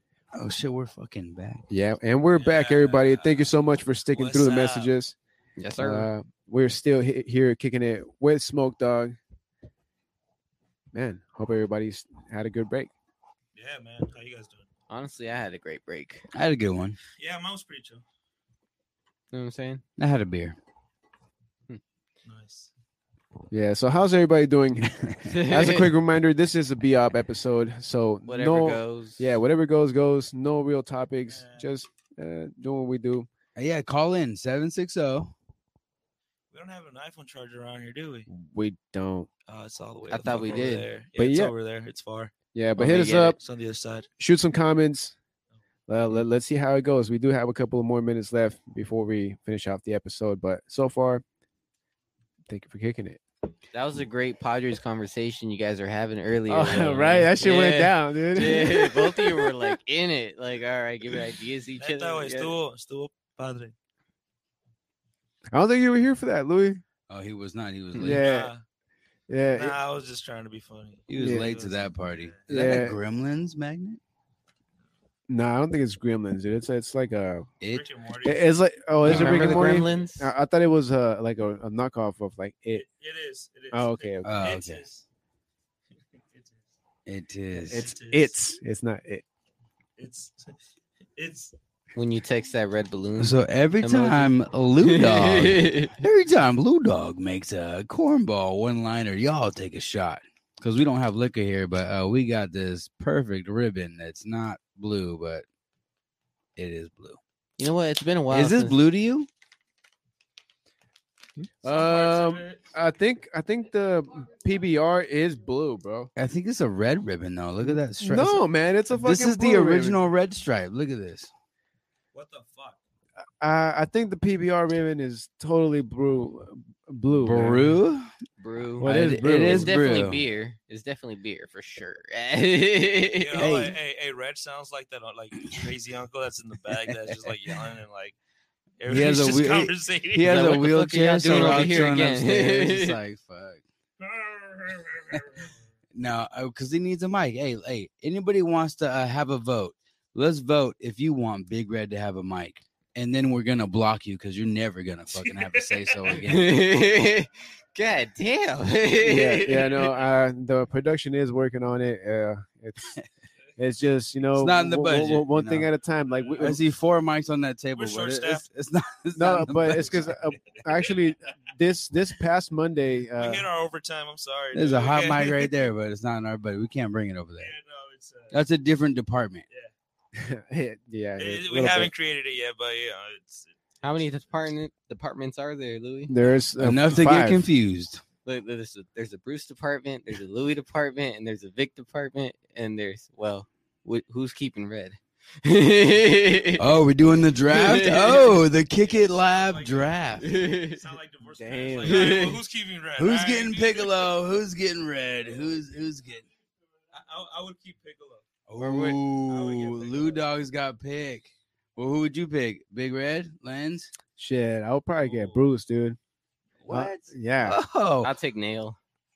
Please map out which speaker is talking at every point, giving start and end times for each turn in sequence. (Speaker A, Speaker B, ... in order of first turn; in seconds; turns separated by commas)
Speaker A: 0.3-1.6, Speaker B: 1.7-5.2, Speaker C: 2.4-3.5, Speaker C: 4.1-4.9, Speaker D: 5.6-6.1, Speaker B: 5.8-9.2, Speaker B: 10.9-12.9, Speaker C: 13.6-14.7, Speaker D: 14.9-16.2, Speaker A: 16.3-17.0, Speaker C: 17.2-18.0, Speaker D: 19.3-19.8, Speaker A: 20.0-20.6, Speaker C: 22.3-22.7, Speaker B: 23.5-33.3, Speaker D: 25.3-25.9, Speaker D: 28.3-29.3, Speaker C: 31.3-31.7, Speaker A: 33.6-35.3, Speaker C: 36.5-38.3, Speaker B: 38.3-39.3, Speaker C: 39.5-42.3, Speaker D: 40.1-40.9, Speaker B: 41.2-41.5, Speaker B: 42.5-43.4, Speaker D: 42.8-43.4, Speaker C: 43.3-44.1, Speaker B: 44.2-45.1, Speaker B: 45.9-51.2, Speaker B: 52.5-53.2, Speaker D: 53.7-62.6, Speaker B: 56.5-59.8, Speaker C: 61.8-63.7, Speaker B: 65.5-66.8, Speaker A: 67.1-68.2, Speaker B: 68.0-68.5, Speaker C: 68.1-68.6, Speaker B: 69.3-69.8, Speaker C: 69.5-72.4, Speaker A: 71.1-74.0, Speaker B: 71.2-71.5, Speaker B: 72.5-73.0, Speaker B: 75.3-77.5, Speaker C: 77.7-78.5, Speaker B: 78.2-82.8, Speaker D: 79.0-80.3, Speaker A: 79.1-79.5, Speaker C: 79.6-80.1, Speaker C: 82.7-85.0, Speaker B: 83.7-84.3, Speaker A: 84.2-84.8, Speaker A: 87.1-87.9, Speaker C: 87.7-88.3, Speaker B: 87.7-89.2, Speaker C: 90.0-90.5, Speaker C: 91.2-91.5, Speaker D: 92.0-95.9, Speaker A: 93.2-105.5, Speaker A: 106.6-107.2, Speaker D: 107.6-108.8, Speaker A: 108.3-109.3, Speaker B: 111.6-116.1, Speaker C: 111.7-112.6, Speaker A: 116.2-121.3, Speaker B: 117.6-120.0, Speaker C: 122.1-122.8, Speaker B: 123.4-127.8, Speaker A: 127.2-128.1, Speaker D: 128.4-128.9, Speaker B: 128.8-130.0, Speaker A: 128.8-130.2, Speaker D: 129.4-133.5, Speaker C: 133.2-138.2, Speaker A: 133.4-133.8, Speaker C: 138.8-140.6, Speaker A: 138.9-143.6, Speaker D: 140.2-143.0, Speaker C: 141.3-141.7, Speaker C: 144.0-145.5, Speaker A: 145.9-156.6, Speaker C: 155.3-156.1, Speaker D: 156.2-159.9, Speaker B: 159.0-163.0, Speaker B: 163.6-166.6, Speaker A: 164.4-165.7, Speaker A: 166.4-170.1, Speaker C: 167.8-168.5, Speaker B: 169.2-173.5, Speaker C: 173.2-175.5, Speaker A: 174.5-177.5, Speaker C: 177.4-178.4, Speaker A: 178.3-179.4, Speaker B: 180.2-181.9, Speaker C: 181.2-183.5, Speaker D: 183.8-186.1, Speaker B: 186.1-187.4, Speaker A: 186.6-188.0, Speaker D: 188.2-196.7, Speaker A: 196.6-200.3, Speaker D: 197.5-198.4, Speaker C: 198.8-204.1, Speaker D: 200.2-200.8, Speaker B: 201.3-202.2, Speaker D: 201.8-202.4, Speaker A: 203.0-206.3, Speaker C: 206.9-208.3, Speaker A: 208.5-213.9, Speaker D: 208.6-209.0, Speaker C: 209.2-210.2, Speaker B: 214.2-216.0, Speaker C: 215.0-215.4, Speaker A: 216.6-218.1, Speaker B: 216.7-217.6, Speaker D: 218.0-218.8